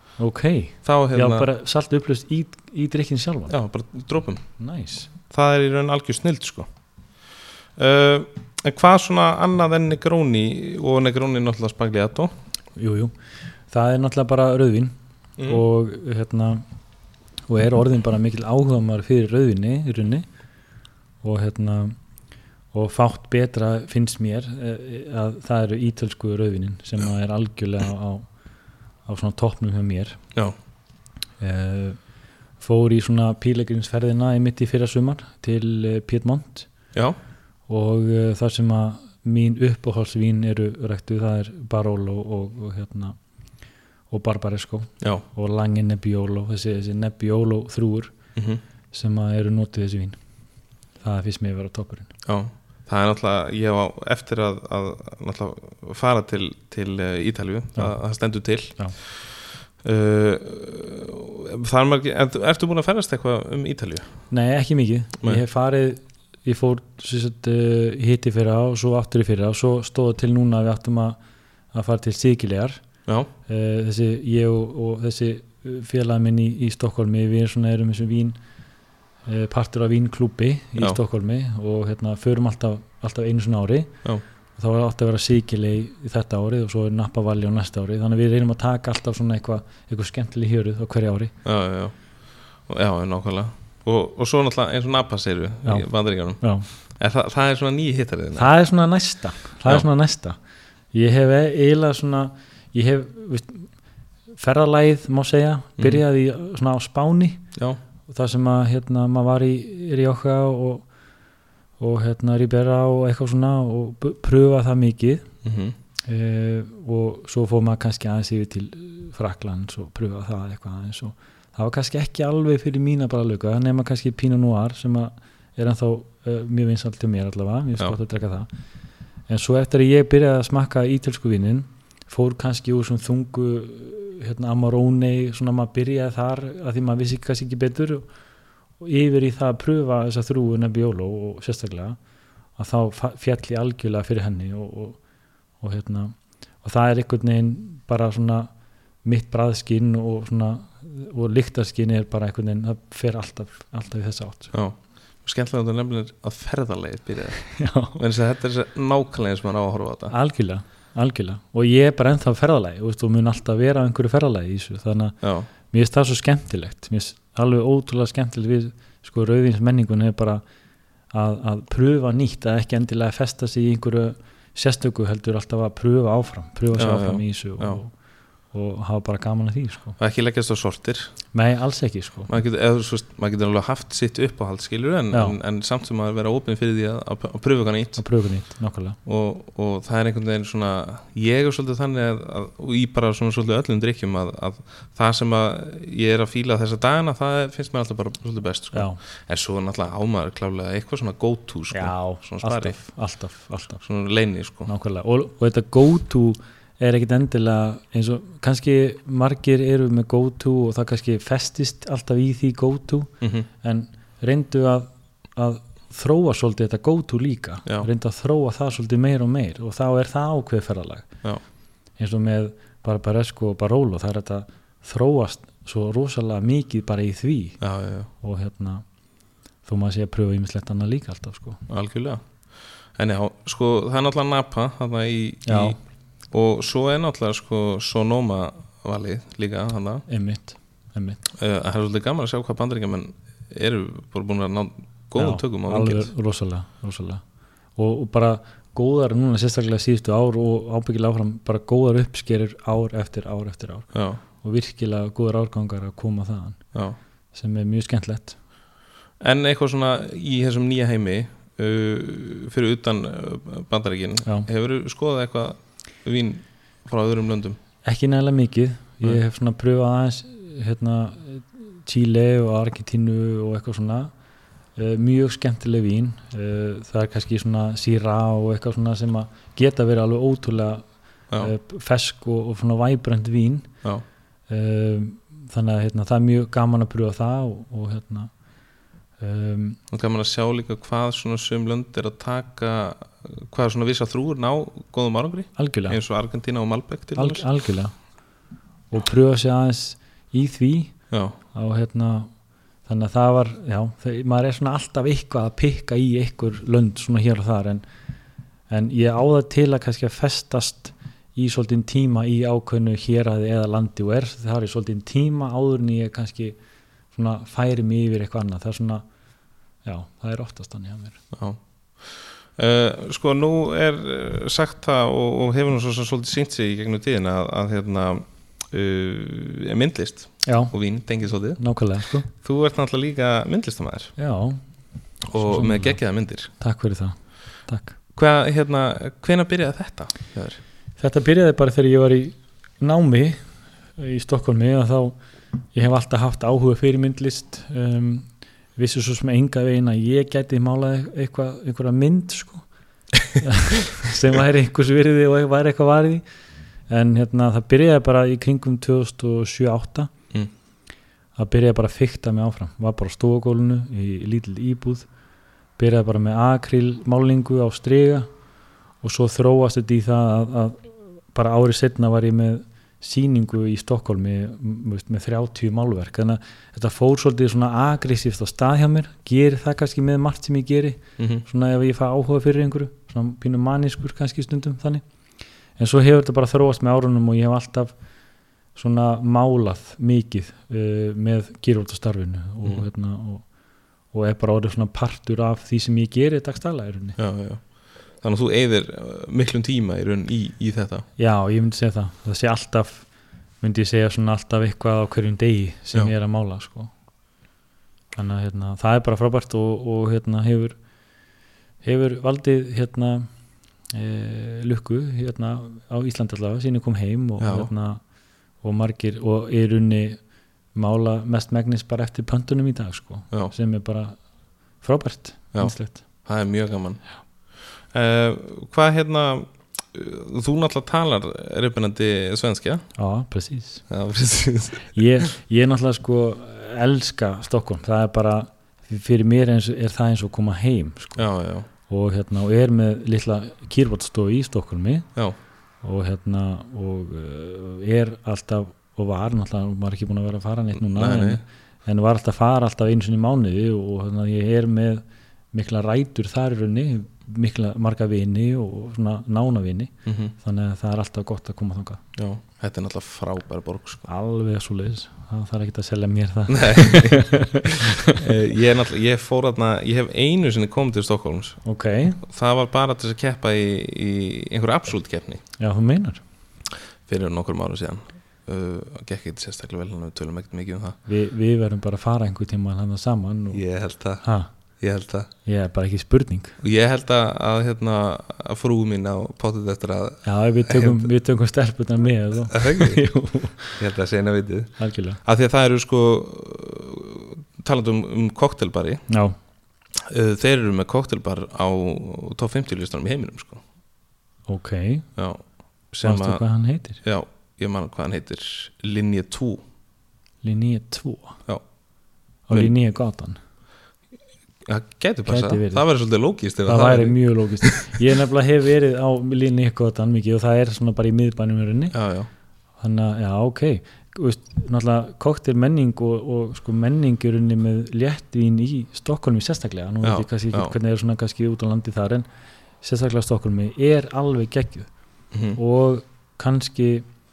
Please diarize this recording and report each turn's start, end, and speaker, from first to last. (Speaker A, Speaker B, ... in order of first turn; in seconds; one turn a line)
Speaker A: 0.2-3.5
Speaker B: 0.8-1.5
Speaker B: 3.5-4.4
Speaker A: 4.6-5.1
Speaker B: 5.3-6.7
Speaker B: 7.8-12.3
Speaker A: 12.8-13.2
Speaker A: 13.7-16.6
Speaker A: 17.5-20.3
Speaker A: 21.2-22.0
Speaker A: 22.7-28.3
Speaker A: 29.1-30.2
Speaker A: 31.4-32.0
Speaker A: 32.6-36.7
Speaker A: 37.7-43.2
Speaker A: 44.1-48.1
Speaker B: 48.4-48.6
Speaker A: 48.9-50.2
Speaker A: 51.0-52.1
Speaker B: 52.3-64.1
Speaker A: 64.3-71.2
Speaker A: 71.7-72.8
Speaker A: 73.5-78.4
Speaker A: 79.3-83.9
Speaker A: 84.5-91.3
Speaker B: 91.5-92.0
Speaker B: 92.7-98.5
Speaker A: 95.7-96.7
Speaker A: 98.3-100.4
Speaker A: 100.9-103.7
Speaker A: 104.4-107.4
Speaker A: 108.1-110.9
Speaker A: 111.8-115.3
Speaker B: 115.4-115.8
Speaker A: 116.0-128.5
Speaker A: 129.3-138.1
Speaker A: 138.8-142.0
Speaker A: 142.6-145.0
Speaker A: 145.6-148.5
Speaker A: 149.0-154.5
Speaker B: 154.5-160.1
Speaker A: 157.5-158.0
Speaker A: 160.1-170.4
Speaker B: 165.2-165.5
Speaker A: 171.1-177.9
Speaker B: 176.7-177.8
Speaker A: 178.5-180.0
Speaker B: 180.0-181.1
Speaker A: 181.3-182.3
Speaker B: 182.3-188.0
Speaker A: 185.1-185.4
Speaker A: 188.0-189.0
Speaker B: 189.1-202.8
Speaker A: 198.7-199.0
Speaker A: 201.7-203.8
Speaker B: 203.8-204.7
Speaker A: 204.7-221.1
Speaker B: 213.2-213.5
Speaker A: 222.0-227.6
Speaker B: 227.6-228.1
Speaker A: 228.2-228.9
Speaker A: 229.6-231.6
Speaker B: 231.7-232.2
Speaker B: 233.0-235.8
Speaker A: 235.5-235.8
Speaker B: 236.3-240.1
Speaker A: 240.1-241.2
Speaker B: 241.3-246.1
Speaker A: 245.2-247.2
Speaker A: 247.8-256.7
Speaker B: 253.9-254.2
Speaker A: 257.3-258.4
Speaker B: 259.2-267.6
Speaker A: 267.9-274.1
Speaker A: 274.8-280.9
Speaker A: 281.4-283.7
Speaker A: 284.5-288.3
Speaker A: 289.2-289.8
Speaker B: 289.9-297.5
Speaker A: 295.6-296.0
Speaker A: 297.2-297.9
Speaker A: 298.9-302.3
Speaker B: 301.1-301.4
Speaker A: 302.9-307.9
Speaker A: 308.7-316.6
Speaker A: 317.1-319.1
Speaker A: 319.8-321.2
Speaker B: 321.3-331.6
Speaker A: 330.4-330.7
Speaker A: 331.6-332.3
Speaker B: 332.3-334.1
Speaker A: 334.2-334.6
Speaker B: 335.3-336.5
Speaker A: 335.3-338.0
Speaker B: 338.2-340.6
Speaker A: 341.0-343.4
Speaker A: 344.0-345.1
Speaker A: 345.7-352.7
Speaker A: 353.4-356.2
Speaker A: 356.9-360.1
Speaker A: 361.4-365.1
Speaker A: 365.8-368.3
Speaker A: 369.0-385.0
Speaker B: 381.2-381.4
Speaker A: 385.8-387.9
Speaker A: 388.8-393.5
Speaker A: 394.1-397.2
Speaker B: 397.2-401.1
Speaker A: 401.2-403.1
Speaker A: 403.6-406.9
Speaker A: 408.1-410.8
Speaker A: 411.8-413.3
Speaker A: 413.9-418.0
Speaker B: 417.4-417.7
Speaker A: 418.6-420.2
Speaker A: 420.7-424.2
Speaker A: 424.8-426.0
Speaker B: 425.5-427.0
Speaker B: 427.9-432.9
Speaker A: 433.0-433.9
Speaker B: 433.9-435.0
Speaker A: 434.9-441.3
Speaker B: 441.2-441.7
Speaker A: 441.8-445.1
Speaker A: 445.8-462.0
Speaker B: 450.8-451.4
Speaker B: 460.1-460.3
Speaker B: 462.2-464.1
Speaker A: 464.1-468.2
Speaker B: 466.5-471.6
Speaker A: 471.6-472.2
Speaker B: 472.2-475.4
Speaker A: 475.6-476.2
Speaker B: 477.1-481.0
Speaker A: 481.1-483.6
Speaker B: 483.5-484.2
Speaker A: 484.2-484.5
Speaker B: 484.8-485.3
Speaker A: 485.4-486.6
Speaker B: 486.6-491.1
Speaker A: 490.2-493.8
Speaker B: 492.5-493.0
Speaker B: 493.8-499.1
Speaker A: 494.8-495.2
Speaker A: 499.1-499.4
Speaker B: 500.0-503.6
Speaker A: 504.5-505.1
Speaker B: 505.2-506.4
Speaker A: 506.0-507.0
Speaker B: 507.0-509.6
Speaker A: 510.4-511.4
Speaker A: 512.5-513.4
Speaker B: 514.6-517.9
Speaker A: 515.3-515.9
Speaker A: 516.6-522.0
Speaker B: 521.9-522.3
Speaker A: 522.8-532.3
Speaker B: 530.0-530.8
Speaker A: 532.8-534.9
Speaker B: 535.3-535.6
Speaker A: 535.5-537.1